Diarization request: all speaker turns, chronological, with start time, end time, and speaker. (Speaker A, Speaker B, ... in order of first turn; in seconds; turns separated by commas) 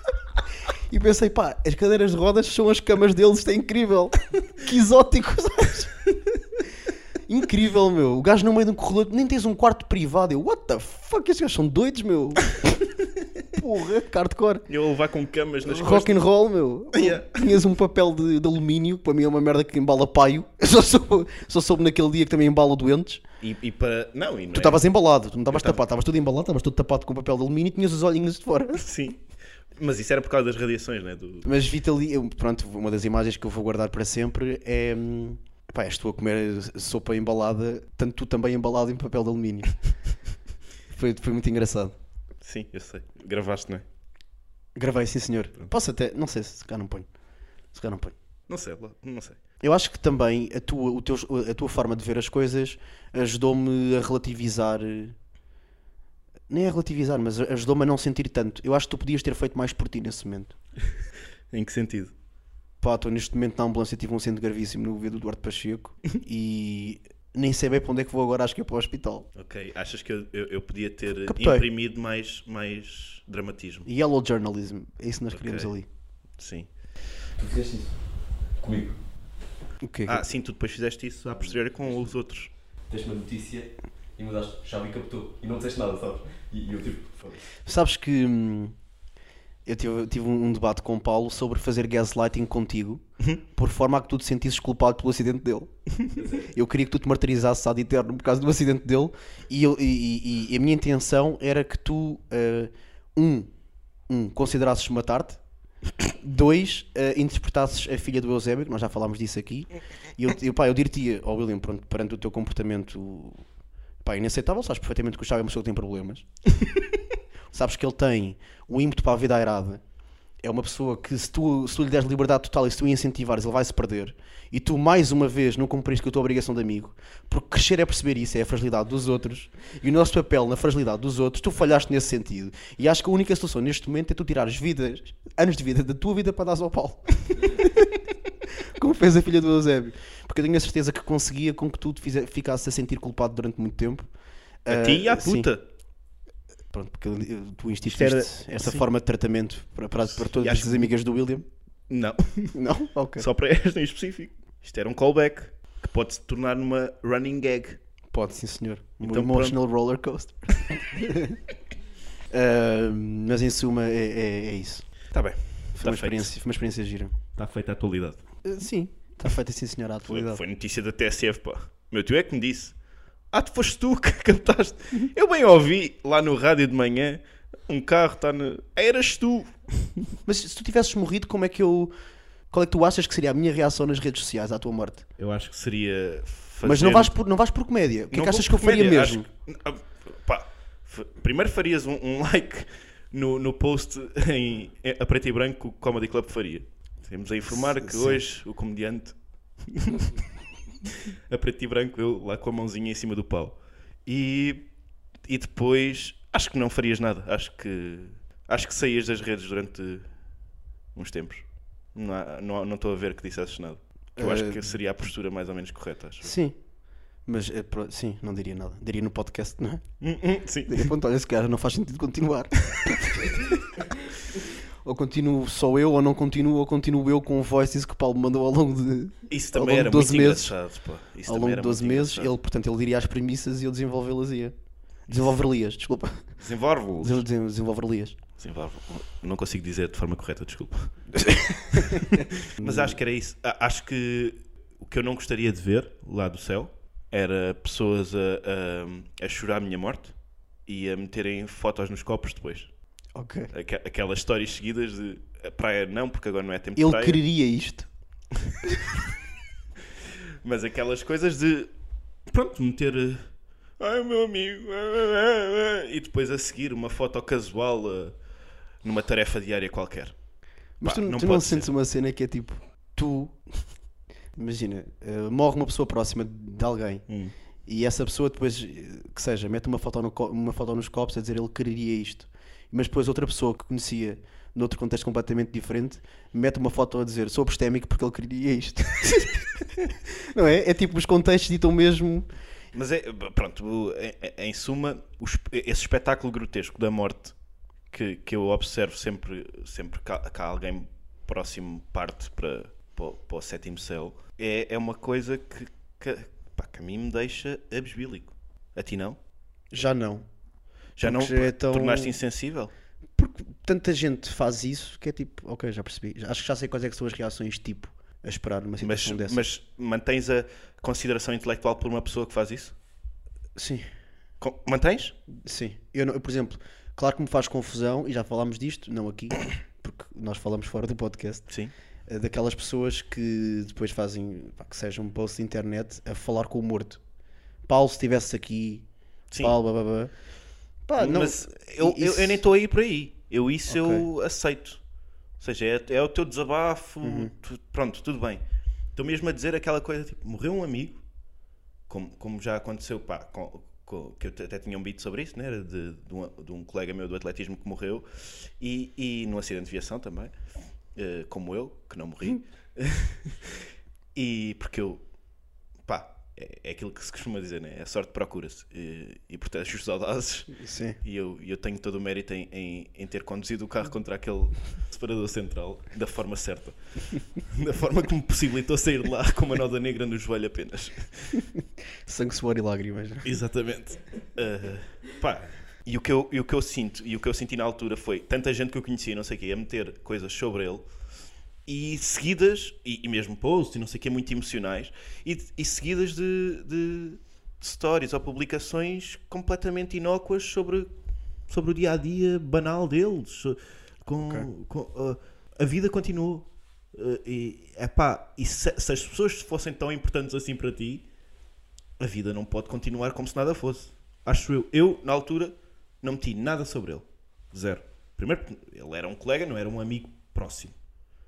Speaker A: 0.9-5.9, Speaker A: 7.3-12.6, Speaker A: 13.5-14.7, Speaker B: 14.7-16.2, Speaker A: 15.6-23.2, Speaker B: 16.9-17.4, Speaker B: 23.4-24.8, Speaker A: 24.5-28.8, Speaker B: 25.5-25.8, Speaker B: 28.8-29.2, Speaker B: 29.8-31.5, Speaker A: 31.4-39.8, Speaker A: 40.9-42.0, Speaker B: 42.4-43.9, Speaker A: 44.8-47.1, Speaker A: 47.7-48.1, Speaker B: 48.5-49.4, Speaker A: 49.6-55.1, Speaker A: 56.5-60.5, Speaker B: 61.5-62.1, Speaker A: 62.8-69.3, Speaker B: 69.3-73.9, Speaker A: 71.2-71.7, Speaker A: 73.9-75.9, Speaker B: 75.3-75.7, Speaker B: 76.4-76.7, Speaker C: 77.4-78.0, Speaker C: 78.6-79.0, Speaker A: 79.8-80.2, Speaker B: 80.0-82.5, Speaker C: 82.9-87.4, Speaker A: 87.7-88.8, Speaker A: 89.7-95.7, Speaker C: 96.2-96.4, Speaker A: 96.4-103.5, Speaker A: 104.1-105.4, Speaker A: 106.2-113.4, Speaker A: 114.0-116.2, Speaker A: 117.5-119.8, Speaker A: 120.4-137.9, Speaker A: 138.8-144.1, Speaker A: 144.7-145.5, Speaker B: 144.7-145.7, Speaker A: 146.7-151.5, Speaker B: 147.9-148.9, Speaker B: 150.1-150.9, Speaker B: 151.9-152.6, Speaker A: 152.5-153.2, Speaker B: 153.2-157.8, Speaker A: 158.1-161.4, Speaker B: 159.0-159.6, Speaker A: 162.3-164.9, Speaker B: 165.1-166.3, Speaker A: 165.8-167.1, Speaker B: 167.4-168.2, Speaker A: 168.4-170.4, Speaker B: 170.0-172.8, Speaker B: 173.3-180.1, Speaker A: 180.2-181.9, Speaker A: 182.5-185.0, Speaker B: 185.2-187.1, Speaker A: 186.6-189.2, Speaker B: 188.1-200.2, Speaker A: 197.5-198.2, Speaker B: 201.1-204.7, Speaker B: 205.2-210.1, Speaker B: 210.9-216.3, Speaker A: 214.2-214.7, Speaker A: 216.2-216.6, Speaker A: 217.2-219.8, Speaker B: 220.0-220.9, Speaker A: 220.7-223.5, Speaker A: 224.8-230.6, Speaker B: 229.3-232.3, Speaker A: 231.3-234.5, Speaker A: 235.1-236.3, Speaker B: 236.4-237.2, Speaker A: 237.0-238.2, Speaker B: 238.4-241.2, Speaker A: 241.3-243.0, Speaker B: 241.7-250.1, Speaker B: 250.7-252.7, Speaker A: 253.1-253.5, Speaker B: 253.5-257.2, Speaker A: 256.8-257.9, Speaker B: 260.4-261.7, Speaker B: 262.3-268.2, Speaker B: 268.8-270.1, Speaker A: 270.8-273.4, Speaker B: 270.8-271.7, Speaker A: 274.4-277.1, Speaker B: 277.1-277.3, Speaker A: 277.6-289.7, Speaker A: 290.3-292.3, Speaker B: 292.7-297.4, Speaker B: 297.9-309.2, Speaker A: 309.7-310.3, Speaker B: 311.0-312.7, Speaker A: 311.0-312.1, Speaker A: 313.2-319.4, Speaker B: 318.8-322.7, Speaker A: 323.6-323.9, Speaker B: 324.4-325.1, Speaker A: 325.4-331.5, Speaker B: 331.5-331.7, Speaker A: 332.1-337.0, Speaker A: 337.6-338.9, Speaker B: 339.3-339.6, Speaker A: 339.4-340.1, Speaker A: 340.9-342.4, Speaker B: 341.0-344.8, Speaker A: 343.7-344.1, Speaker B: 345.4-348.4, Speaker A: 347.0-347.3, Speaker B: 348.9-351.0, Speaker B: 351.9-360.3, Speaker B: 360.9-365.0, Speaker B: 365.9-381.4, Speaker A: 370.6-371.0, Speaker A: 382.1-383.3, Speaker B: 383.2-390.9, Speaker B: 391.6-400.9, Speaker B: 401.5-411.1, Speaker A: 404.2-404.5, Speaker B: 412.0-420.7